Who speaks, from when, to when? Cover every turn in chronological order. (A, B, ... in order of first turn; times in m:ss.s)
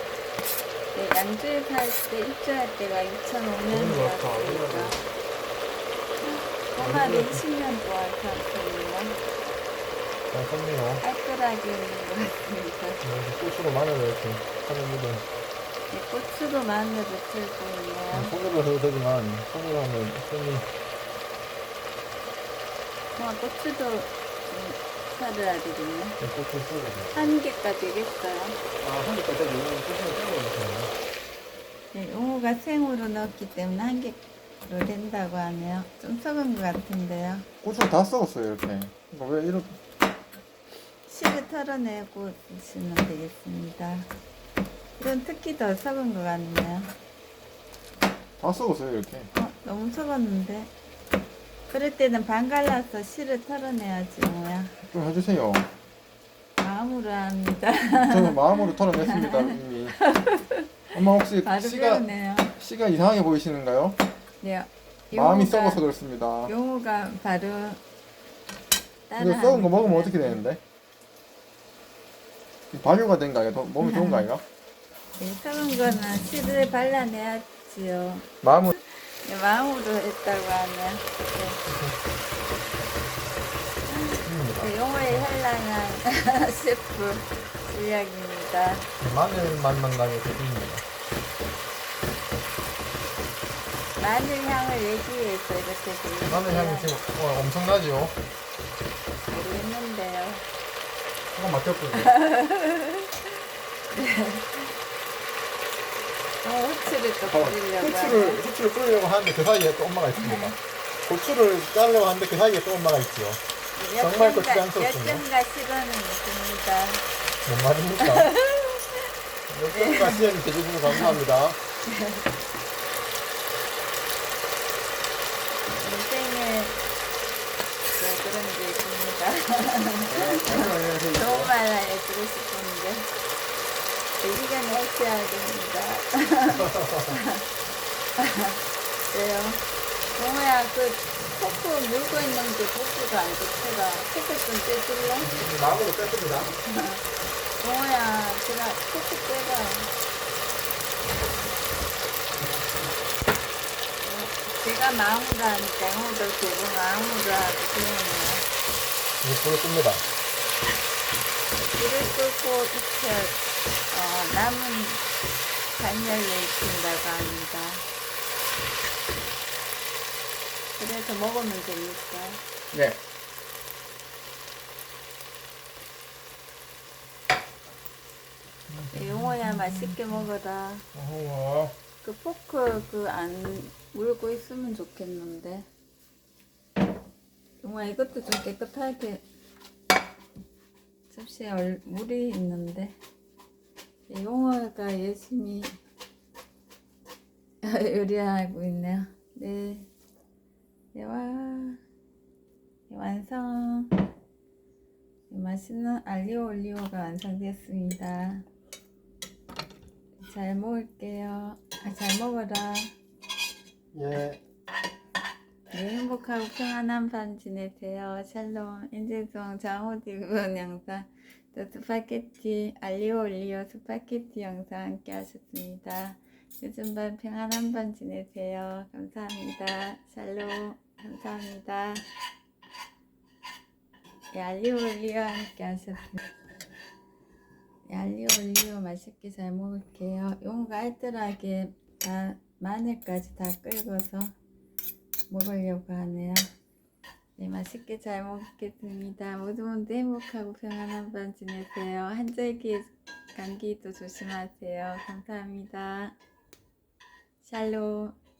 0:00.9-0:05.0 A
0:03.7-0:05.0 B
0:06.2-0:09.2 A
0:06.8-0:07.4 B
0:10.3-0:11.0 B
0:11.0-0:13.0 A
0:13.0-0:15.2 B
0:15.9-0:18.3 A
0:18.1-0:20.7 B
0:23.2-0:26.2 A
0:26.2-0:27.3 B
0:27.1-0:28.6 A
0:28.8-0:30.9 B
0:31.9-0:37.5 A
0:37.6-0:39.8 B
0:41.1-0:44.1 A
0:45.0-0:46.9 A
0:48.4-0:49.3 B
0:49.3-0:50.7 A
0:51.7-0:54.8 A
0:54.9-0:55.7 B
0:56.6-1:02.5 A
0:58.0-1:00.0 B
1:00.9-1:02.0 B
1:02.6-1:04.0 B
1:04.4-1:05.8 A
1:05.1-1:06.5 B
1:06.5-1:07.8 A
1:09.1-1:10.4 A
1:09.2-1:10.6 B
1:12.7-1:14.4 B
1:13.8-1:14.3 A
1:15.2-1:21.6 A
1:18.4-1:18.8 B
1:21.6-1:22.0 B
1:23.9-1:28.9 A
1:24.2-1:25.2 B
1:29.0-1:30.8 B
1:34.0-1:36.9 A
1:36.3-1:38.2 B
1:39.3-1:40.4 A
1:41.3-1:42.1 B
1:41.9-1:43.3 A
1:43.9-1:44.7 A
1:46.4-1:48.4 A
1:47.2-1:53.4 B
1:50.2-1:50.5 A
1:53.7-1:57.0 A
1:54.0-1:55.2 B
1:57.4-1:58.3 B
1:58.0-1:59.1 A
1:59.5-2:01.6 B
1:59.7-2:00.2 A
2:00.9-2:01.1 A
2:01.9-2:02.2 A
2:05.7-2:06.8 A
2:08.0-2:13.1 A
2:10.1-2:11.5 B
2:14.2-2:17.4 A
2:16.6-2:17.2 B
2:18.2-2:18.6 A
2:19.1-2:19.6 A
2:20.2-2:25.3 A
2:25.3-2:26.5 B
2:26.6-2:27.0 A
2:27.6-2:29.9 A
2:34.0-2:38.4 A
2:39.2-2:40.1 B
2:41.6-2:43.4 A
2:43.9-2:45.0 A
2:45.7-2:47.8 A
2:50.8-2:52.4 A
2:52.7-2:53.0 B
2:58.7-3:00.0 B
2:58.9-3:00.8 A
3:00.9-3:01.8 B
3:02.0-3:05.7 A
3:07.6-3:09.2 A
3:11.1-3:13.0 A
3:14.1-3:15.8 A
3:17.6-3:19.9 A
3:20.9-3:21.8 A
3:22.9-3:23.9 A
3:25.3-3:28.4 A
3:30.2-3:32.9 A
3:33.9-3:34.4 B
3:35.7-3:52.0 A
3:54.3-3:56.2 A
3:57.9-4:04.3 A
4:05.3-4:06.5 A
4:07.4-4:16.2 A
4:17.4-4:18.2 A